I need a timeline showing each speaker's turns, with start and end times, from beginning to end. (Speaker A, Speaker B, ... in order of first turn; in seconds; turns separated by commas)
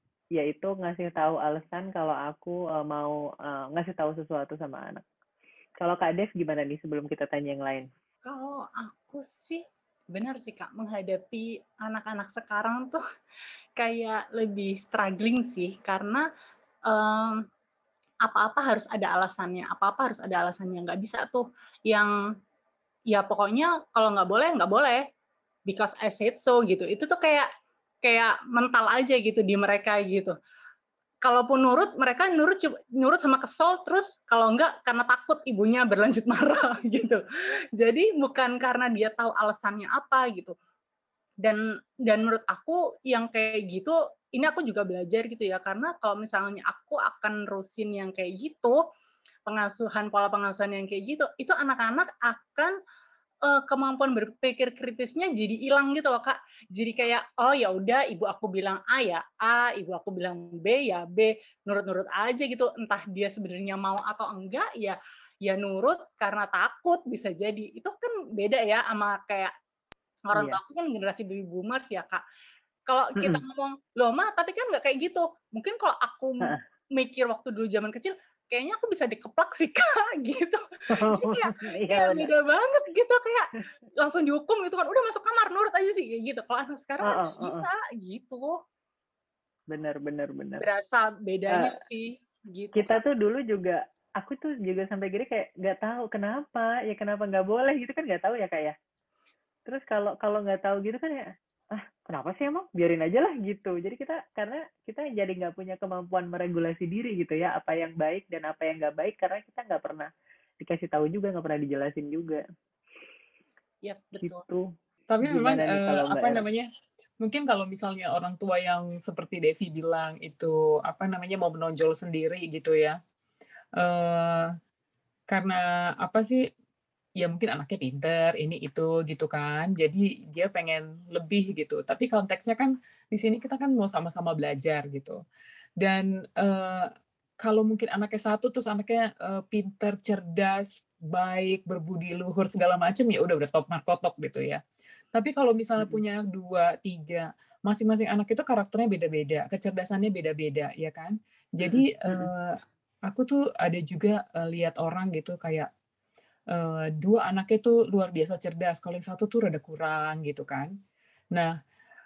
Speaker A: 0.3-5.0, Speaker A: 5.8-7.9, Speaker B: 8.2-13.0, Speaker B: 13.8-16.2, Speaker B: 16.9-17.4, Speaker B: 18.2-22.1, Speaker B: 23.1-25.1, Speaker B: 25.7-27.5, Speaker B: 28.0-30.3, Speaker B: 31.2-37.2, Speaker B: 37.8-40.5, Speaker B: 41.4-48.8, Speaker B: 49.5-52.8, Speaker B: 53.4-69.5, Speaker B: 70.3-72.2, Speaker A: 70.3-70.6, Speaker B: 72.9-88.6, Speaker A: 80.9-82.3, Speaker A: 87.0-87.7, Speaker A: 89.7-90.7, Speaker B: 90.6-93.0, Speaker A: 91.5-91.8, Speaker A: 92.7-98.7, Speaker A: 99.7-110.1, Speaker A: 110.6-112.4, Speaker B: 113.8-114.4, Speaker A: 114.2-114.7, Speaker C: 115.1-116.7, Speaker A: 115.2-116.4, Speaker C: 117.2-123.0, Speaker C: 123.8-124.5, Speaker C: 125.3-126.5, Speaker C: 127.2-135.2, Speaker C: 135.8-144.6, Speaker C: 145.1-155.7, Speaker A: 151.6-152.2, Speaker C: 156.5-160.7